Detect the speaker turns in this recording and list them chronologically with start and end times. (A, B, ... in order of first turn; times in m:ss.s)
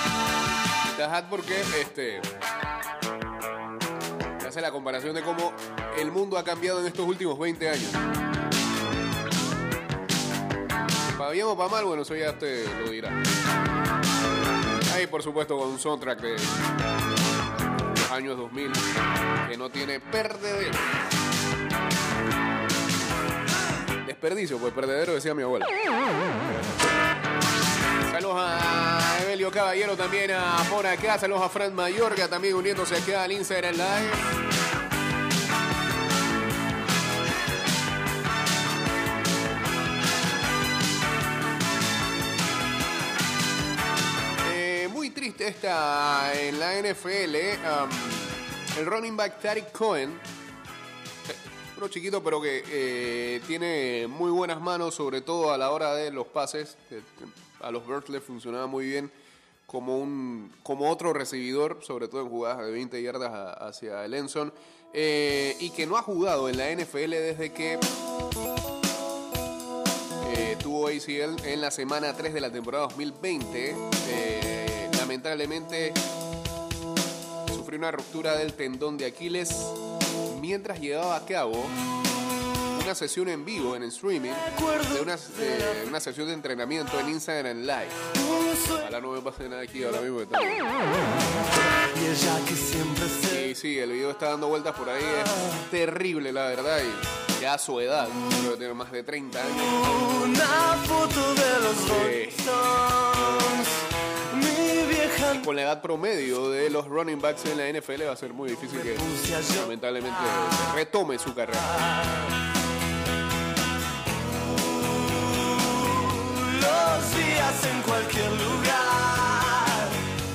0:00.9-0:02.3 A
0:04.4-0:08.0 A
0:11.2-0:13.2 A
0:14.9-0:16.6 A
0:18.0-0:18.8 A
0:19.4-0:20.9 A
0:24.0-0:25.7 A
0:26.4-0:26.9 A
0:28.1-0:34.2 A
0:44.4-0:50.2 A
0:51.3-0:59.1 A
0:59.7-1:07.8 A
1:10.2-1:16.0 A
1:17.5-1:19.8 A
1:20.3-1:21.8 A
1:22.7-1:28.0 A
1:24.5-1:25.8 B
1:28.2-1:28.8 B
1:28.7-1:30.9 A
1:31.9-1:33.5 B
1:33.2-1:40.2 A
1:39.8-1:43.8 B
1:41.8-1:42.5 A
1:44.3-1:45.4 B
1:45.3-1:51.9 A
1:48.8-1:49.7 B
1:54.8-2:00.0 B